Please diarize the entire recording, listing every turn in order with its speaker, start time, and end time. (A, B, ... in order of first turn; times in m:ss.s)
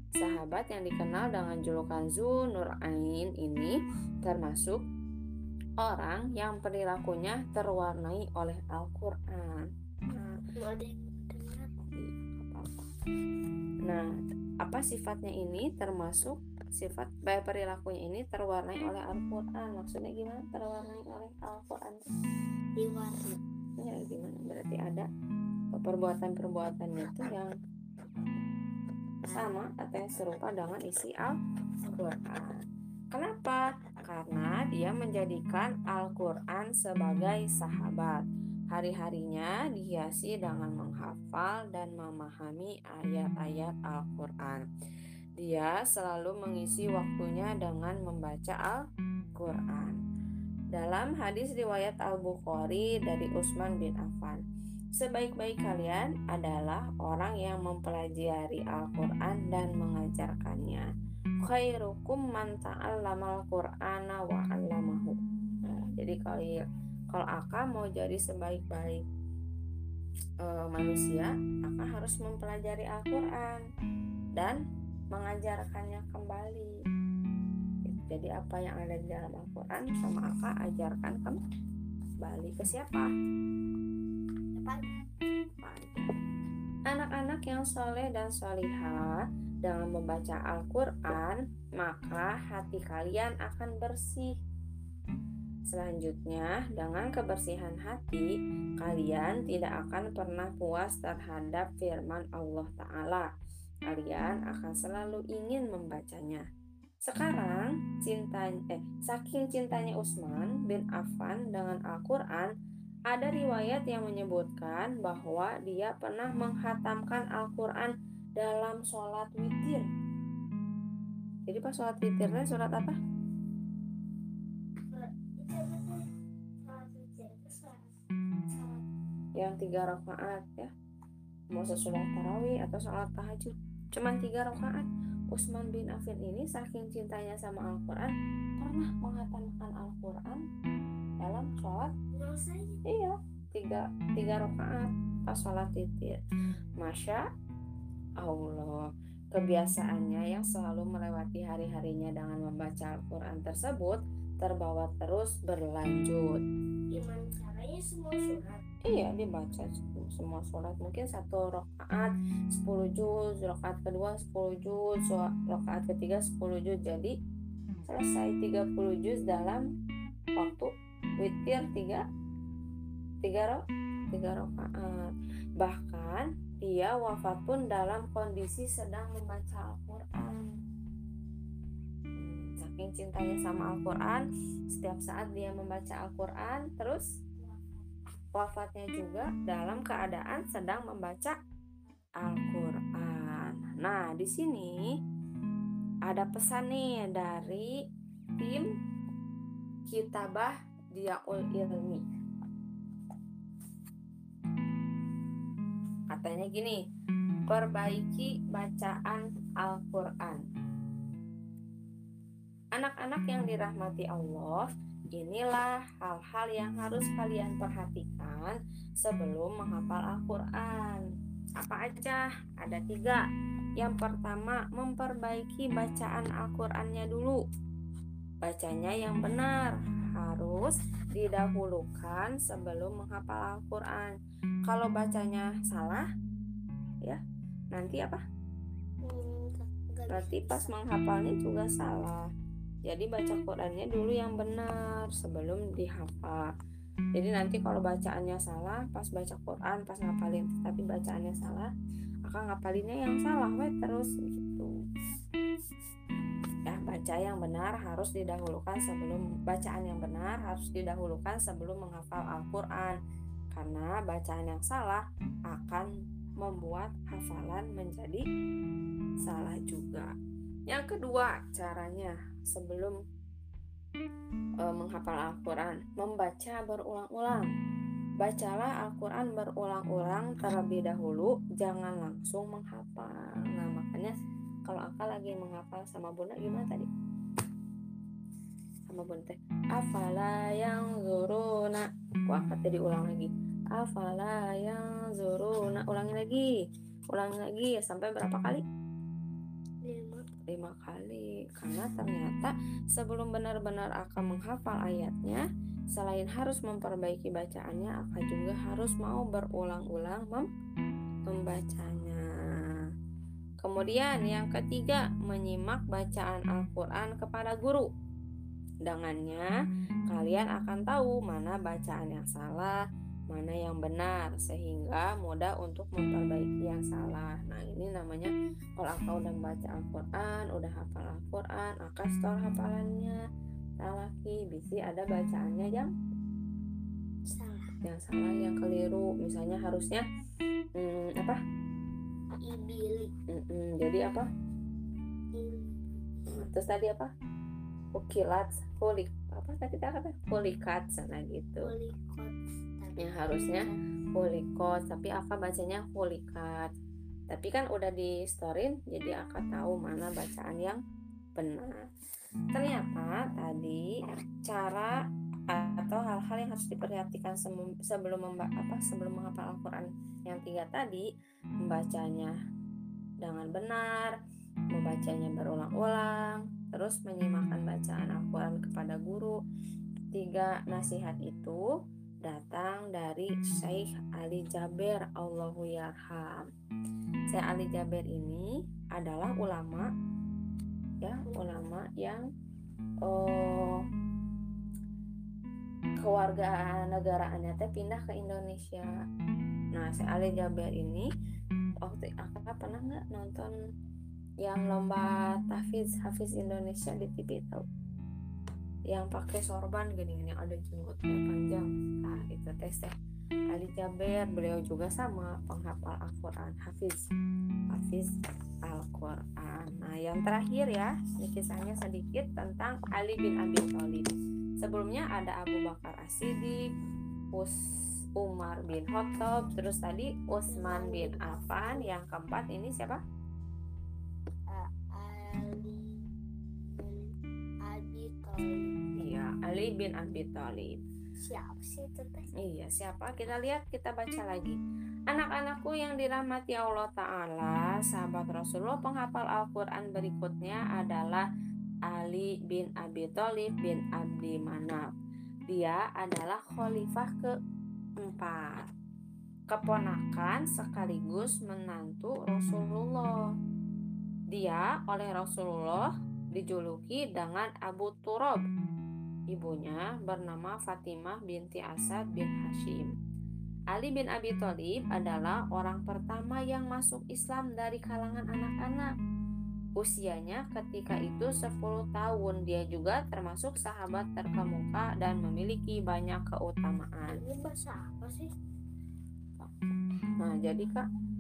0:00.2-0:04.8 A
0:05.8-0:10.4 A
0:10.6-0:11.7 B
0:12.0-0:12.9 A
0:13.9-0:14.1 A
0:14.6-0:22.1 A
0:22.8-0:23.4 B
0:23.8-0:25.1 A
0:25.8-0:27.5 A
0:29.3-0:31.4 A
0:31.9-0:32.6 A
0:33.1-0:44.6 A
0:45.4-0:48.8 A
0:49.4-0:50.0 A
0:50.7-0:54.4 A
0:55.0-1:00.9 A
1:01.4-1:09.0 A
1:10.4-1:13.6 A
1:15.1-1:16.7 A
1:17.9-1:21.4 A
1:22.2-1:23.1 A
1:24.6-1:25.0 B
1:25.6-1:26.1 A
1:26.9-1:34.3 A
1:35.7-1:38.3 A
1:38.8-1:43.3 A
1:43.9-1:46.4 A
1:47.1-1:52.5 A
1:53.1-1:59.9 A
2:01.5-2:03.0 A
2:04.9-2:06.0 B
2:06.6-2:07.9 B
2:08.5-2:08.8 B
2:09.4-2:10.7 A
2:11.5-2:20.4 A
2:21.2-2:21.9 A
2:22.1-2:22.8 B
2:22.8-2:26.2 A
2:26.8-2:27.2 A
2:28.2-2:36.4 A
2:36.9-2:38.6 B
2:38.8-2:47.1 A
2:47.9-2:49.6 A
2:50.4-2:50.7 A
2:51.2-2:52.0 A
2:53.2-3:00.6 A
3:02.2-3:07.1 A
3:07.4-3:07.8 B
3:08.4-3:11.4 A
3:12.2-3:14.8 A
3:16.1-3:17.7 A
3:18.4-3:18.7 A
3:19.9-3:22.0 A
3:26.1-3:26.8 A
3:27.5-3:30.4 A
3:32.8-3:41.0 A
3:41.6-3:43.2 A
3:43.8-3:47.4 A
3:48.4-3:54.2 A
3:54.7-3:56.1 A
3:57.7-3:58.2 A
3:59.0-4:00.8 B
4:00.1-4:02.3 A
4:02.9-4:06.5 A
4:07.2-4:11.7 A
4:12.3-4:14.7 A
4:16.7-4:23.0 A
4:23.5-4:28.2 A
4:29.2-4:30.1 A
4:30.7-4:33.0 A
4:34.6-4:37.5 A
4:38.2-4:44.1 A
4:44.7-4:46.9 A
4:48.9-4:56.5 A
4:57.1-4:58.6 A
4:59.8-5:00.3 B
5:00.5-5:05.4 A
5:06.0-5:10.5 A
5:11.3-5:12.2 A
5:13.6-5:17.9 A
5:18.9-5:19.5 A
5:20.1-5:22.8 A
5:23.3-5:33.2 A
5:33.8-5:35.9 A
5:37.3-5:37.8 B
5:37.8-5:40.0 A
5:40.8-5:41.4 A
5:42.4-5:43.1 B
5:43.3-5:44.3 A
5:45.3-5:46.5 B
5:46.3-5:47.1 A
5:47.9-5:51.7 A
5:51.6-5:53.8 B
5:53.0-5:56.7 A
5:57.3-6:00.8 A
6:01.4-6:01.8 A
6:02.5-6:03.8 A
6:04.4-6:04.9 A
6:05.5-6:11.1 A
6:11.6-6:12.3 A
6:13.2-6:14.2 A
6:14.7-6:19.4 A
6:20.2-6:21.6 A
6:22.2-6:26.5 A
6:27.3-6:29.9 A
6:31.0-6:32.3 A
6:31.3-6:31.8 B
6:33.0-6:33.8 A
6:36.0-6:38.9 A
6:39.8-6:41.1 A
6:41.8-6:43.5 A
6:44.4-6:47.6 A
6:48.9-6:52.9 A
6:53.5-6:57.0 A
6:57.7-6:58.1 A
6:58.7-7:06.6 A
7:08.2-7:13.0 A
7:10.5-7:11.9 B
7:14.5-7:16.0 B
7:16.7-7:17.1 B
7:17.6-7:18.8 B
7:19.0-7:20.8 A
7:21.2-7:22.3 B
7:22.4-7:24.6 A
7:25.1-7:31.3 A
7:31.9-7:34.9 A
7:35.5-7:37.3 A
7:38.0-7:38.7 A
7:39.5-7:43.2 A
7:44.3-7:48.4 A
7:49.3-7:52.9 A
7:53.7-7:58.9 A
7:59.8-8:07.2 A
8:07.1-8:08.3 B
8:09.4-8:10.9 A